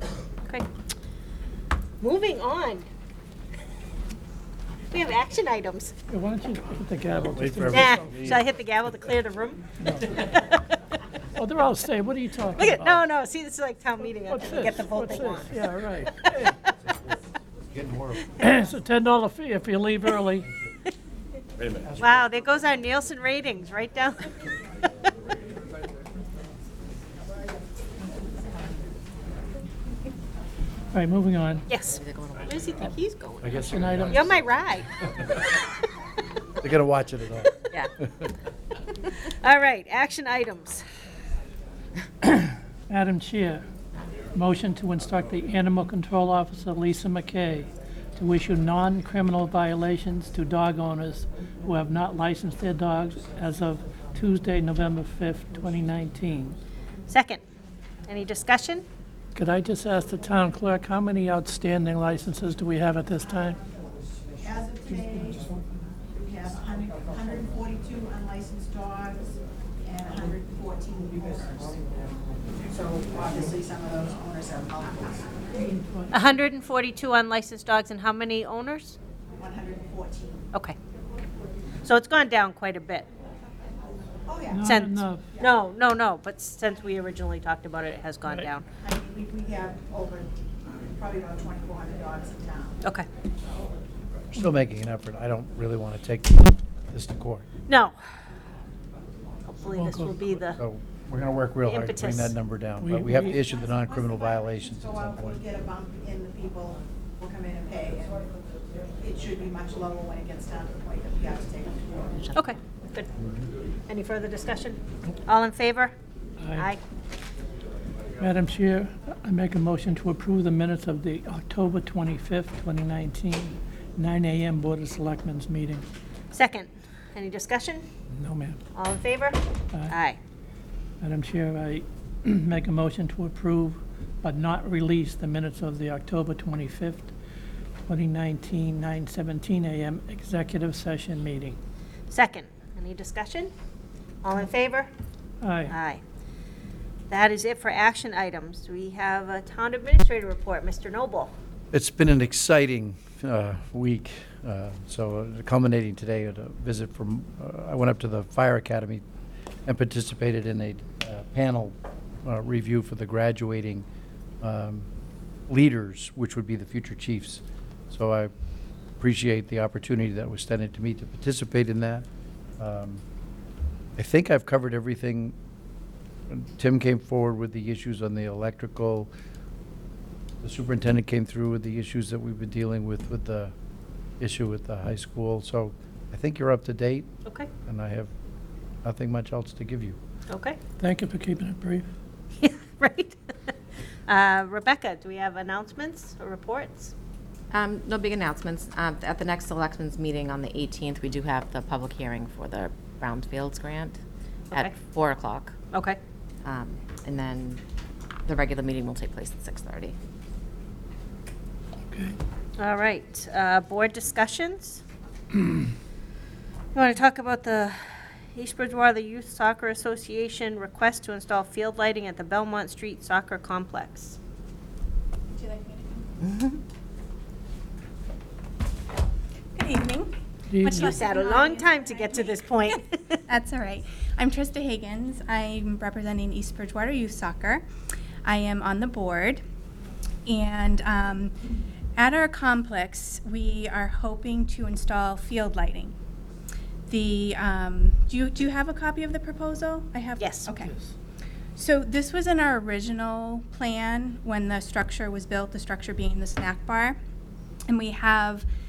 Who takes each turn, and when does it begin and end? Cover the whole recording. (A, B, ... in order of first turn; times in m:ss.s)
0:02.0-0:02.8 A
0:04.9-0:05.9 A
0:06.1-0:08.1 B
0:07.3-0:08.4 C
0:07.7-0:09.6 A
0:09.8-0:10.1 B
0:11.4-0:12.9 B
0:12.5-0:16.5 A
0:14.3-0:16.5 B
0:16.9-0:17.1 C
0:17.7-0:18.3 C
0:18.4-0:20.5 B
0:21.9-0:24.2 A
0:30.9-0:31.6 B
0:31.7-0:35.0 A
0:31.8-0:32.9 D
0:33.4-0:34.4 C
0:33.7-0:34.1 B
0:36.6-0:37.6 C
0:39.2-0:40.8 A
0:42.3-0:43.6 B
0:44.3-0:56.6 B
0:57.1-0:57.4 A
0:58.1-0:58.8 A
0:59.3-1:03.6 B
1:04.4-1:05.5 E
1:06.1-1:12.1 E
1:12.7-1:15.4 E
1:15.6-1:16.1 B
1:16.1-1:19.0 A
1:19.4-1:20.4 E
1:21.8-1:23.0 A
1:24.3-1:24.8 E
1:24.5-1:25.3 B
1:24.6-1:28.6 A
1:28.8-1:32.8 E
1:34.3-1:37.4 C
1:37.7-1:38.0 A
1:39.5-1:40.6 A
1:39.7-1:40.1 B
1:40.6-1:45.4 C
1:41.6-1:42.4 A
1:42.8-1:43.4 B
1:43.1-1:48.2 E
1:49.0-1:52.3 E
1:52.3-1:53.1 A
1:53.9-1:55.9 A
1:56.4-1:56.7 B
1:56.5-1:56.8 A
1:58.2-2:05.8 B
2:06.3-2:07.8 A
2:08.1-2:08.6 B
2:08.7-2:10.2 A
2:11.0-2:17.1 B
2:17.9-2:21.6 B
2:22.1-2:23.5 A
2:24.2-2:24.9 A
2:25.4-2:25.7 B
2:25.6-2:26.0 A
2:27.1-2:31.3 A
2:31.7-2:39.0 C
2:39.6-2:43.8 C
2:44.4-2:44.9 C
2:45.5-2:48.3 C
2:49.0-2:52.0 C
2:52.6-2:53.0 C
2:54.0-2:55.3 C
2:56.3-2:59.1 C
3:00.4-3:03.5 C
3:04.2-3:07.1 C
3:07.6-3:08.1 C
3:08.8-3:10.0 C
3:10.3-3:10.6 A
3:10.8-3:11.9 B
3:12.4-3:13.5 A
3:14.1-3:16.9 A
3:17.5-3:24.0 D
3:24.5-3:25.6 D
3:25.7-3:26.0 A
3:26.4-3:27.6 D
3:28.2-3:29.9 D
3:31.9-3:32.2 B
3:32.6-3:34.8 A
3:36.7-3:44.2 A
3:45.3-3:46.3 F
3:49.5-3:57.6 F
3:50.5-3:50.9 B
3:50.7-3:53.0 A
3:58.2-3:59.4 F
4:00.2-4:01.3 F
4:02.0-4:05.9 F
4:06.9-4:10.7 F
4:10.2-4:10.5 A
4:11.6-4:17.0 F
4:17.7-4:18.4 F